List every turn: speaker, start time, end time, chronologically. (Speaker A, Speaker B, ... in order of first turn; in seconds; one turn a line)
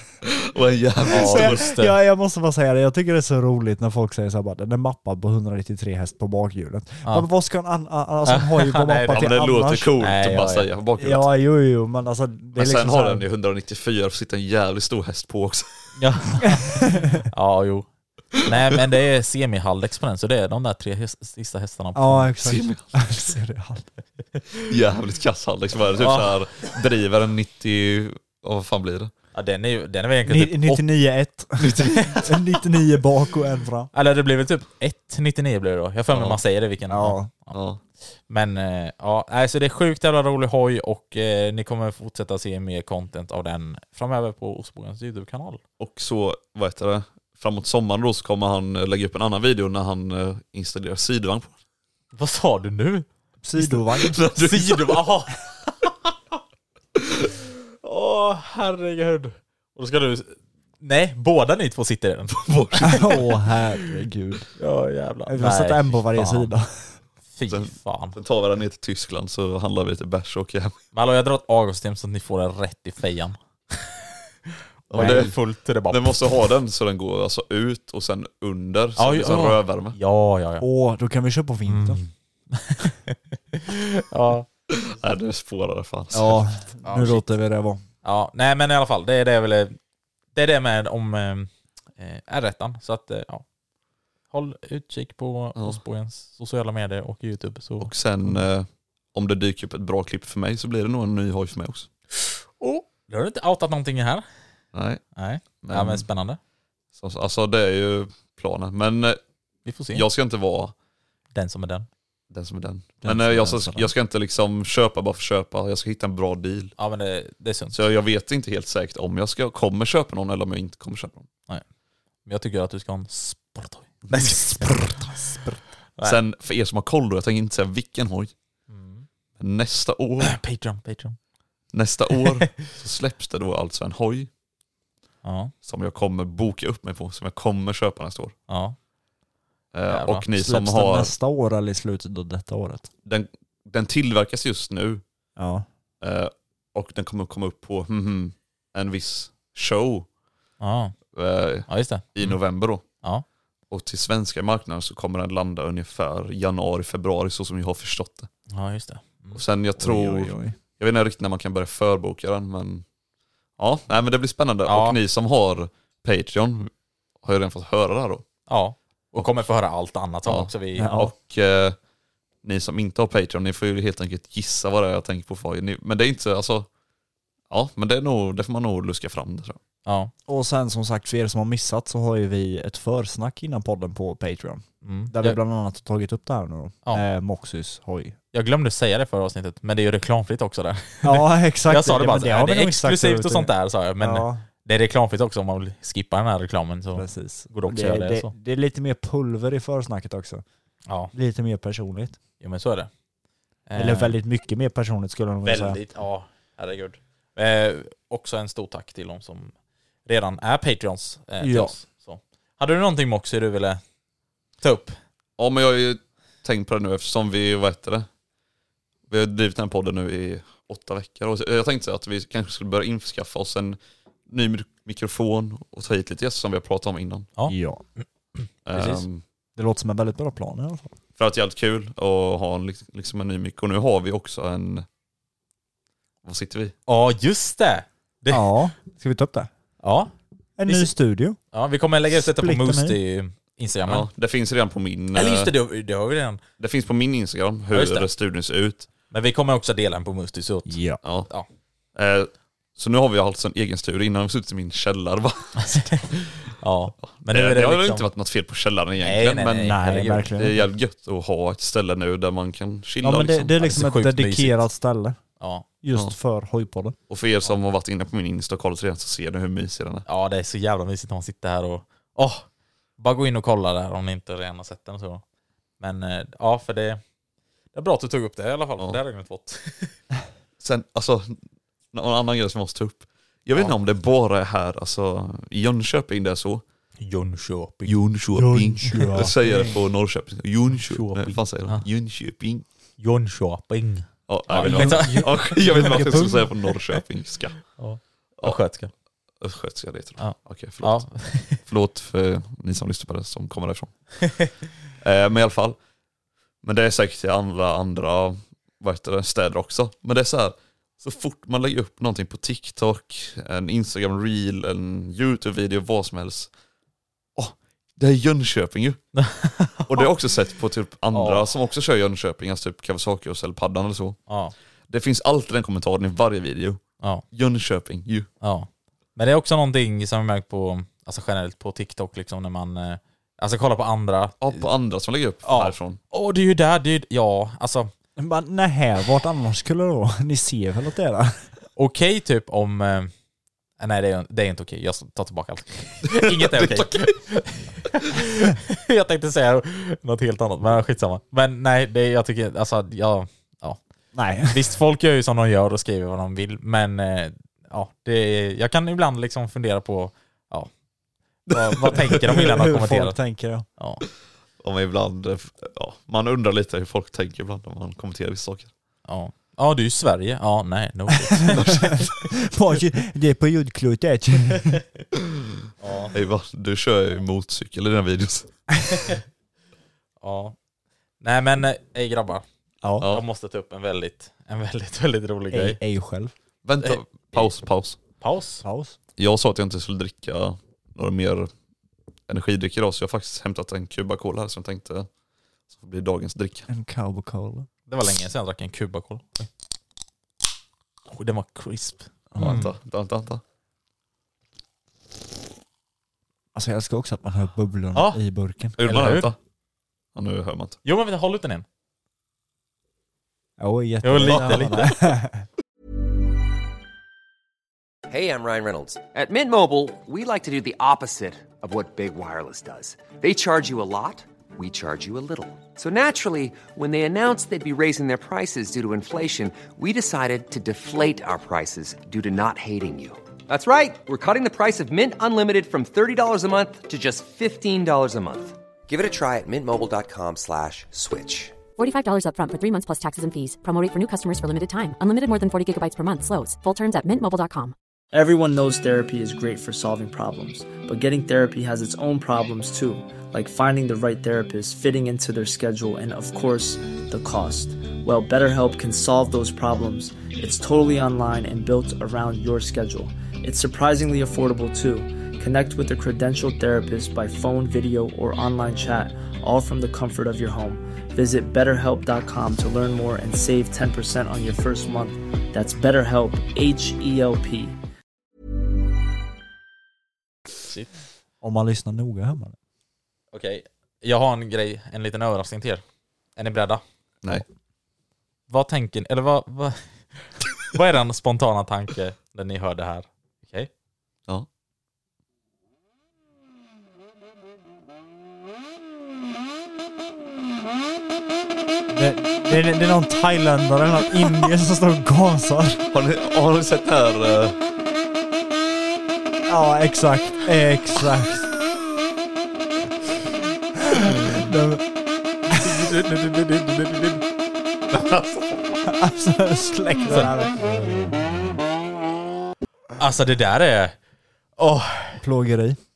Speaker A: 0.2-1.7
Speaker B: 1.1-1.9
Speaker C: 1.1-10.0
Speaker B: 8.2-9.2
Speaker A: 9.1-11.3
Speaker B: 10.0-10.7
Speaker C: 11.0-13.2
Speaker A: 12.5-15.8
Speaker B: 16.0-22.3
Speaker C: 16.4-17.2
Speaker C: 21.9-23.9
Speaker A: 22.4-23.0
Speaker A: 24.7-29.1
Speaker B: 26.0-26.4
Speaker B: 29.3-30.9
Speaker C: 30.2-33.9
Speaker A: 31.6-32.2
Speaker B: 31.8-32.2
Speaker B: 33.9-37.5
Speaker A: 36.1-36.4
Speaker C: 36.9-37.3
Speaker A: 37.5-37.8
Speaker B: 38.3-45.6
Speaker A: 45.8-51.5
Speaker B: 52.1-53.0
Speaker C: 53.4-54.2
Speaker A: 54.1-55.0
Speaker B: 54.3-55.9
Speaker B: 57.8-63.2
Speaker A: 62.3-63.2
Speaker C: 62.8-64.5
Speaker B: 64.6-66.5
Speaker C: 65.3-66.9
Speaker B: 67.3-68.2
Speaker A: 67.5-70.7
Speaker B: 70.9-74.0
Speaker B: 74.9-76.2
Speaker A: 74.9-75.3
Speaker C: 74.9-75.3
Speaker A: 75.9-80.0
Speaker B: 79.0-80.7
Speaker C: 80.6-82.0
Speaker B: 81.7-84.5
Speaker A: 84.7-86.4
Speaker C: 86.1-87.8
Speaker B: 86.8-87.2
Speaker B: 88.0-89.8
Speaker B: 90.3-93.4
Speaker B: 94.3-97.9
Speaker A: 95.5-95.8
Speaker A: 97.8-101.9
Speaker B: 102.2-104.2
Speaker A: 104.7-105.0
Speaker B: 105.2-106.4
Speaker A: 105.6-106.0
Speaker A: 107.0-109.2
Speaker B: 109.7-110.0
Speaker A: 109.9-110.7
Speaker B: 111.3-111.9
Speaker A: 112.3-116.7
Speaker C: 113.0-113.9
Speaker B: 116.8-117.8
Speaker A: 117.7-121.3
Speaker B: 122.2-125.0
Speaker C: 124.6-125.5
Speaker A: 126.0-128.3
Speaker B: 128.7-129.1
Speaker A: 129.4-130.4
Speaker B: 130.2-131.2
Speaker A: 131.7-134.3
Speaker B: 132.4-132.7
Speaker B: 135.2-135.5
Speaker A: 135.6-138.3
Speaker B: 138.5-138.8
Speaker A: 139.7-141.1
Speaker B: 139.9-140.2
Speaker C: 140.3-142.9
Speaker A: 143.0-145.0
Speaker C: 145.4-145.7
Speaker A: 146.0-150.1
Speaker B: 150.6-150.9
Speaker A: 151.1-152.8
Speaker B: 151.7-152.4
Speaker A: 153.7-158.3
Speaker B: 158.5-159.4
Speaker A: 159.3-162.8
Speaker C: 159.8-160.6
Speaker A: 163.6-166.7
Speaker B: 164.7-165.0
Speaker A: 167.2-168.3
Speaker B: 168.5-170.9
Speaker A: 169.2-169.4
Speaker A: 170.2-171.8
Speaker C: 170.8-171.1
Speaker A: 172.4-176.7
Speaker A: 177.5-179.6
Speaker B: 179.8-180.1
Speaker C: 180.3-188.2
Speaker B: 184.8-185.4
Speaker B: 188.3-198.3
Speaker C: 191.0-194.4
Speaker C: 196.9-200.4
Speaker B: 200.9-201.1
Speaker C: 201.1-202.2
Speaker B: 202.4-202.9
Speaker B: 203.7-204.2
Speaker C: 203.8-205.8
Speaker B: 205.4-209.5
Speaker B: 210.1-213.8
Speaker C: 211.4-211.7
Speaker B: 214.6-215.0
Speaker A: 215.4-218.1
Speaker A: 219.1-223.8
Speaker A: 224.3-227.3
Speaker B: 227.4-229.0
Speaker C: 227.5-227.8
Speaker A: 228.7-229.2
Speaker C: 229.6-230.9
Speaker A: 231.2-234.8
Speaker A: 236.2-236.7
Speaker B: 236.9-238.5
Speaker C: 238.3-239.5
Speaker B: 239.8-240.1
Speaker C: 240.6-241.4
Speaker B: 241.5-244.1
Speaker C: 242.1-243.0
Speaker A: 243.9-245.5
Speaker B: 245.1-246.4
Speaker A: 246.6-248.9
Speaker B: 247.7-248.1
Speaker B: 249.1-250.8
Speaker C: 250.7-251.0
Speaker A: 251.0-251.3
Speaker A: 251.9-256.2
Speaker B: 255.6-258.1
Speaker A: 257.1-259.8
Speaker B: 259.0-260.3
Speaker C: 259.6-260.6
Speaker A: 260.4-263.6
Speaker C: 263.0-265.2
Speaker B: 263.6-264.6
Speaker B: 265.4-265.6
Speaker C: 265.8-266.9
Speaker A: 267.1-270.0
Speaker B: 270.1-272.4
Speaker B: 273.0-275.2
Speaker B: 275.8-277.0
Speaker B: 277.7-279.9
Speaker A: 280.6-281.4
Speaker A: 281.9-286.6
Speaker B: 287.0-287.9
Speaker A: 287.9-292.6
Speaker C: 288.3-289.8
Speaker B: 290.8-291.8
Speaker B: 293.0-296.3
Speaker A: 294.3-297.6
Speaker C: 294.6-296.4
Speaker B: 297.8-298.9
Speaker A: 299.4-304.4
Speaker B: 300.2-301.6
Speaker A: 305.0-305.8
Speaker A: 306.6-316.5
Speaker A: 317.4-319.0
Speaker B: 319.1-320.1
Speaker A: 319.9-324.2
Speaker B: 321.1-321.5
Speaker B: 324.3-324.5
Speaker A: 324.9-326.8
Speaker A: 327.3-328.3
Speaker B: 328.4-334.6
Speaker A: 334.4-336.0
Speaker B: 335.4-337.9
Speaker C: 338.2-341.4
Speaker B: 341.8-343.1
Speaker B: 343.8-353.8
Speaker A: 346.1-347.1
Speaker C: 354.1-354.7
Speaker B: 354.5-360.7
Speaker B: 361.5-363.2
Speaker A: 361.8-362.1
Speaker C: 362.1-363.6
Speaker B: 363.8-364.0
Speaker A: 364.6-368.7
Speaker B: 369.1-371.9
Speaker C: 371.4-374.8
Speaker A: 371.5-372.1
Speaker B: 375.8-376.1
Speaker A: 376.1-378.5
Speaker B: 380.2-380.6
Speaker B: 381.2-382.4
Speaker C: 382.8-383.1
Speaker B: 383.0-385.8
Speaker C: 385.5-386.3
Speaker A: 386.6-388.0
Speaker B: 386.8-387.5
Speaker B: 388.2-388.6
Speaker C: 388.6-388.9
Speaker A: 389.2-391.5
Speaker A: 392.3-395.1
Speaker A: 395.7-396.7
Speaker C: 396.7-397.7
Speaker B: 397.9-399.5
Speaker B: 401.1-402.7
Speaker C: 402.3-402.6
Speaker A: 402.4-403.4
Speaker C: 406.5-408.8
Speaker B: 407.9-408.2
Speaker A: 408.8-409.4
Speaker B: 408.8-409.3
Speaker A: 410.1-410.8
Speaker B: 410.8-411.6
Speaker C: 413.6-415.5
Speaker B: 414.0-414.9
Speaker D: 418.1-441.5
Speaker E: 441.8-447.7
Speaker F: 448.1-477.8
Speaker C: 481.4-482.6
Speaker B: 483.3-485.8
Speaker B: 486.4-486.8
Speaker B: 488.5-493.7
Speaker C: 501.9-505.8
Speaker A: 505.9-507.6
Speaker C: 509.5-511.5
Speaker C: 513.9-514.8
Speaker C: 515.5-515.8
Speaker B: 515.5-517.2
Speaker A: 517.9-518.4
Speaker C: 518.8-521.1
Speaker B: 520.1-520.3
Speaker B: 523.0-524.0
Speaker B: 524.6-525.2
Speaker C: 525.2-525.8